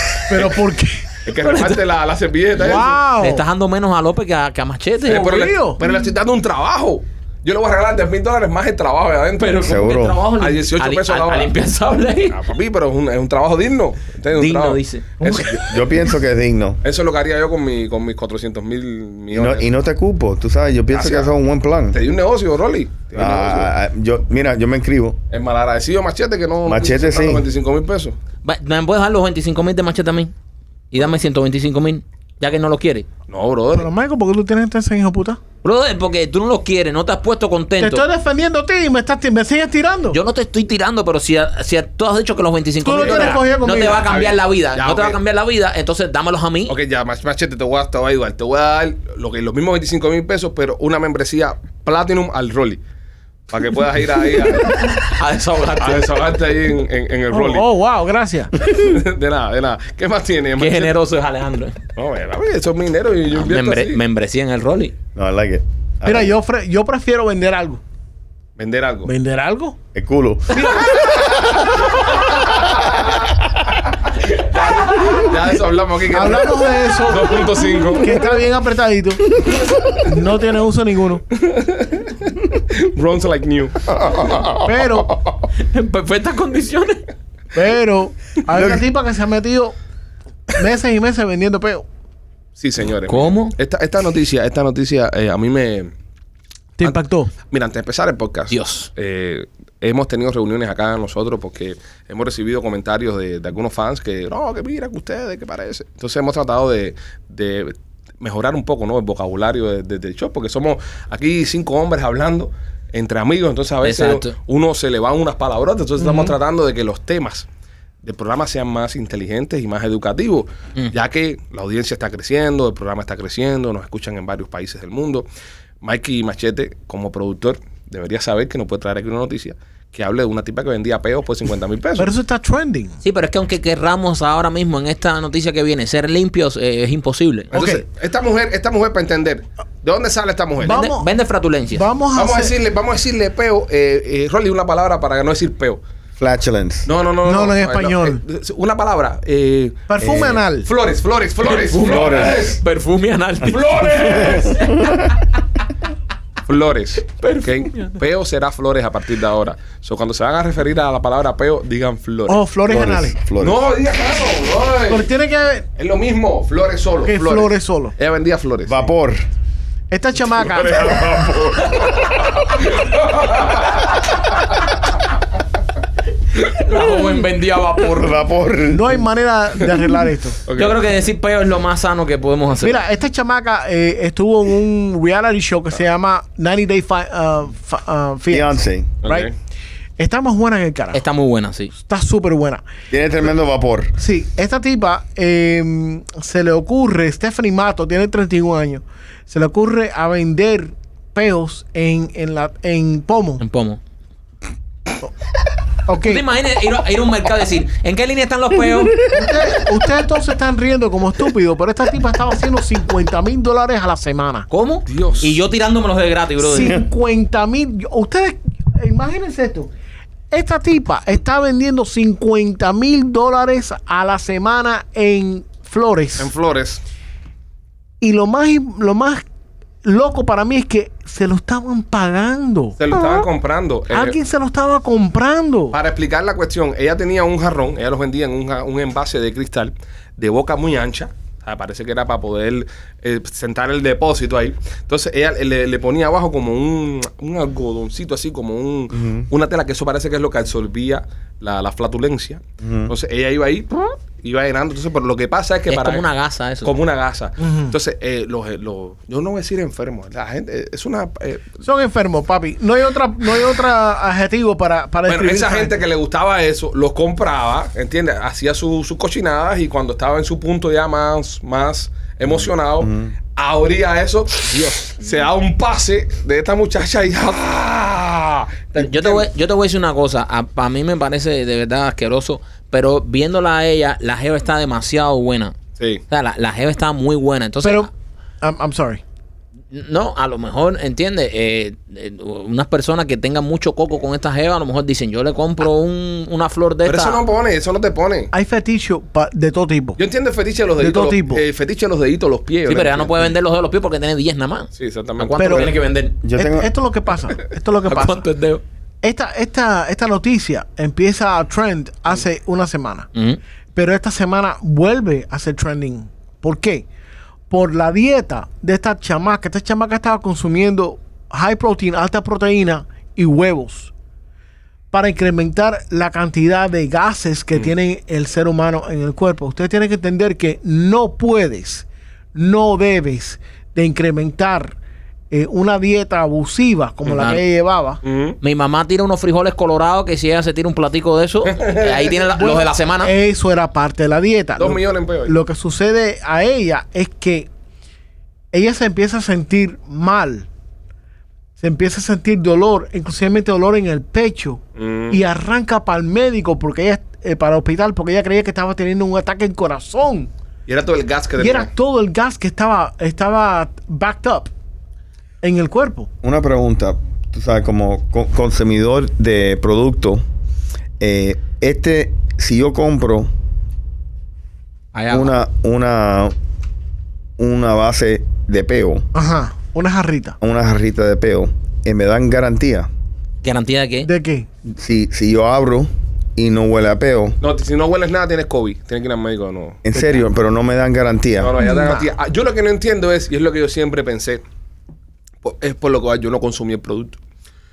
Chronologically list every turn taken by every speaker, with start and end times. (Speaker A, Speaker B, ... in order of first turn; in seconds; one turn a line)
Speaker A: 0.3-1.1
Speaker B: 0.3-0.6
Speaker B: 1.2-3.0
Speaker C: 1.4-1.8
Speaker A: 2.6-3.4
Speaker C: 2.6-5.3
Speaker A: 5.1-5.8
Speaker B: 5.1-9.7
Speaker C: 9.4-12.4
Speaker D: 9.6-10.2
Speaker B: 10.4-11.5
Speaker B: 12.3-15.6
Speaker C: 14.3-15.1
Speaker A: 15.2-15.7
Speaker D: 15.5-16.8
Speaker B: 16.8-19.7
Speaker D: 19.3-22.0
Speaker B: 20.9-21.3
Speaker B: 21.9-23.7
Speaker D: 23.1-25.2
Speaker B: 25.3-28.1
Speaker D: 26.6-27.4
Speaker C: 28.4-30.3
Speaker C: 30.9-33.0
Speaker B: 33.3-33.9
Speaker A: 33.7-35.4
Speaker C: 35.6-38.0
Speaker A: 37.8-40.2
Speaker C: 40.1-46.7
Speaker A: 42.8-44.1
Speaker B: 43.0-43.4
Speaker B: 44.0-45.2
Speaker B: 46.7-52.8
Speaker B: 53.5-54.9
Speaker C: 54.6-56.1
Speaker B: 55.8-57.7
Speaker A: 57.3-58.5
Speaker B: 58.6-60.9
Speaker C: 60.6-61.8
Speaker B: 62.0-64.0
Speaker C: 63.3-64.9
Speaker D: 65.1-66.3
Speaker A: 66.0-67.8
Speaker B: 68.6-69.1
Speaker A: 69.0-69.8
Speaker D: 69.9-71.8
Speaker A: 70.6-71.2
Speaker D: 72.6-73.1
Speaker B: 74.2-78.2
Speaker A: 76.1-81.2
Speaker B: 81.3-84.5
Speaker A: 84.6-85.1
Speaker C: 85.5-87.0
Speaker A: 87.5-89.7
Speaker D: 88.5-88.8
Speaker A: 90.5-91.8
Speaker B: 92.6-95.9
Speaker C: 93.1-93.5
Speaker A: 96.8-97.3
Speaker B: 96.8-117.5
Speaker C: 98.5-98.9
Speaker C: 113.8-114.3
Speaker A: 116.0-116.3
Speaker B: 118.0-125.2
Speaker B: 125.8-132.1
Speaker A: 132.0-133.0
Speaker C: 133.0-137.5
Speaker B: 137.5-140.8
Speaker A: 137.5-137.8
Speaker A: 140.6-141.1
Speaker C: 140.6-141.8
Speaker A: 141.7-142.5
Speaker B: 142.1-145.8
Speaker D: 146.2-146.9
Speaker B: 146.8-152.6
Speaker A: 147.2-148.2
Speaker A: 149.9-150.7
Speaker D: 150.0-150.4
Speaker C: 151.4-154.9
Speaker D: 151.8-152.5
Speaker B: 153.4-154.6
Speaker D: 154.0-155.1
Speaker B: 156.4-162.4
Speaker C: 157.2-157.9
Speaker A: 162.3-163.1
Speaker D: 162.7-163.6
Speaker B: 163.4-165.1
Speaker A: 164.9-165.7
Speaker B: 165.8-168.9
Speaker A: 167.0-167.9
Speaker D: 168.7-169.2
Speaker A: 169.9-171.3
Speaker B: 170.3-174.4
Speaker D: 170.8-172.2
Speaker C: 176.5-178.2
Speaker D: 177.9-179.0
Speaker A: 178.7-180.4
Speaker B: 180.4-180.8
Speaker C: 180.5-182.8
Speaker A: 182.6-189.3
Speaker D: 188.3-188.9
Speaker B: 189.0-189.3
Speaker A: 190.0-191.0
Speaker C: 190.9-191.7
Speaker A: 191.7-192.6
Speaker D: 192.9-193.9
Speaker A: 194.0-203.4
Speaker C: 203.4-203.8
Speaker A: 205.9-206.2
Speaker C: 206.0-209.0
Speaker A: 209.1-214.5
Speaker C: 214.5-216.8
Speaker B: 214.9-215.4
Speaker A: 216.4-219.7
Speaker A: 220.3-226.3
Speaker B: 226.2-226.8
Speaker A: 228.0-229.2
Speaker A: 229.8-233.3
Speaker B: 232.8-234.2
Speaker A: 233.9-235.7
Speaker B: 235.7-256.0
Speaker D: 248.9-249.3
Speaker D: 252.6-252.9
Speaker C: 255.7-256.7
Speaker B: 256.6-261.6
Speaker A: 257.4-257.7
Speaker A: 261.6-265.7
Speaker B: 265.1-279.2
Speaker D: 272.3-273.1
Speaker C: 278.7-285.5
Speaker C: 286.1-287.9
Speaker A: 287.6-287.9
Speaker A: 288.4-289.0
Speaker C: 289.7-297.2
Speaker B: 296.8-298.3
Speaker A: 298.3-300.0
Speaker B: 300.0-303.3
Speaker A: 300.8-301.4
Speaker C: 302.7-306.1
Speaker B: 304.8-305.7
Speaker A: 305.4-305.7
Speaker D: 306.2-306.7
Speaker A: 306.4-308.2
Speaker C: 307.8-308.6
Speaker A: 309.0-313.1
Speaker C: 313.1-313.4
Speaker A: 313.7-316.9
Speaker A: 317.5-323.9
Speaker A: 324.9-334.8
Speaker A: 335.3-338.0
Speaker C: 337.1-337.4
Speaker B: 338.0-338.4
Speaker C: 338.4-343.1
Speaker B: 341.5-342.1
Speaker A: 342.3-347.5
Speaker B: 344.6-345.3
Speaker A: 348.5-350.5
Speaker A: 351.6-360.3
Speaker B: 354.8-355.2
Speaker B: 360.7-361.7
Speaker A: 361.4-364.5
Speaker A: 365.4-366.1
Speaker D: 366.2-370.2
Speaker D: 371.0-373.3
Speaker C: 374.9-375.3
Speaker D: 375.1-376.3
Speaker D: 377.4-379.1
Speaker A: 379.1-380.4
Speaker D: 380.4-382.9
Speaker C: 383.4-384.1
Speaker A: 384.0-384.5
Speaker D: 384.6-387.4
Speaker B: 387.4-389.8
Speaker D: 389.8-391.6
Speaker B: 391.4-394.4
Speaker A: 391.6-392.1
Speaker B: 395.4-397.2